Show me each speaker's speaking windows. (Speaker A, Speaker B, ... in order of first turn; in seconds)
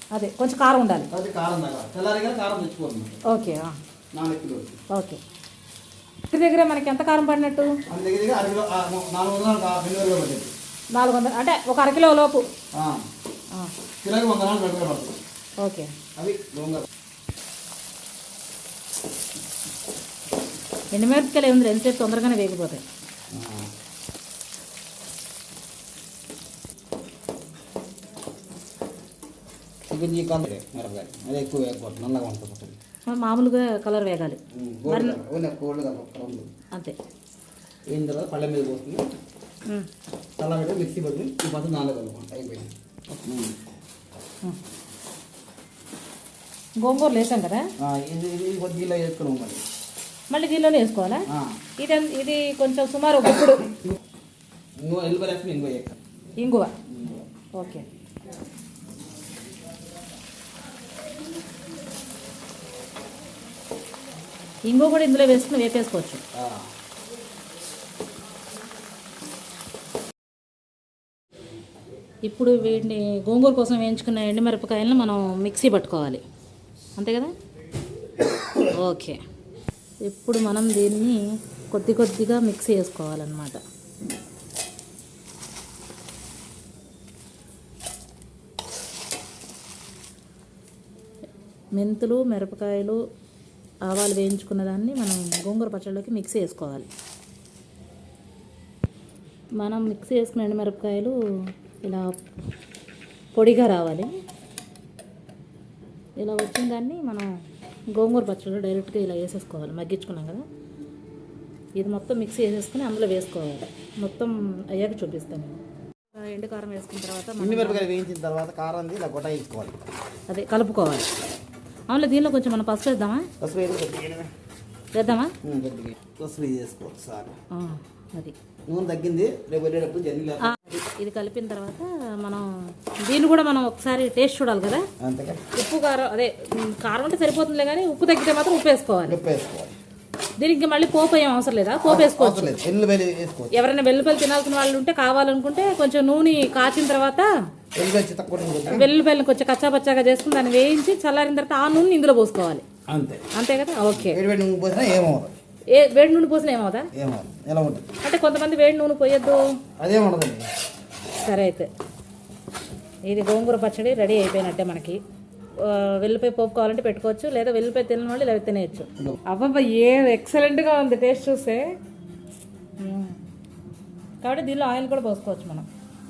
Speaker A: 0.1-1.1, 3.2-3.8, 4.9-5.2, 6.3-7.8, 10.9-12.5, 15.6-15.9, 20.9-22.8, 33.1-35.2, 46.8-47.7, 50.3-51.3, 51.8-53.7, 56.4-56.7, 57.5-57.9, 64.7-66.2, 72.2-76.2, 77.0-77.3, 78.8-79.2, 80.0-83.6, 91.8-93.0, 93.8-96.9, 99.6-101.1, 101.8-102.2, 103.3-104.1, 106.2-107.3, 107.9-110.4, 111.8-115.6, 116.1-117.8, 120.3-121.1, 121.9-123.3, 124.9-125.3, 127.5-128.3, 130.4-134.9, 135.5-139.2, 140.4-142.6, 143.5-147.3, 148.7-152.6, 153.3-154.2, 155.7-156.9, 158.0-159.6, 161.2-161.7, 163.1-165.0, 165.6-171.8, 172.8-173.2, 174.2-175.7
Speaker B: 1.1-3.2, 4.1-4.8, 7.9-10.5, 12.7-13.1, 14.0-15.2, 16.2-16.9, 23.3-23.7, 29.9-32.8, 34.5-36.5, 37.9-39.1, 40.4-42.7, 43.2-43.6, 47.8-49.6, 51.3-51.5, 53.7-54.0, 54.8-56.0, 56.9-57.2, 66.3-66.7, 117.4-119.8, 123.4-124.3, 125.4-127.3, 128.7-130.6, 135.0-135.4, 139.1-139.8, 141.8-143.5, 147.8-148.9, 152.9-153.3, 153.9-155.3, 156.9-157.9, 159.8-160.5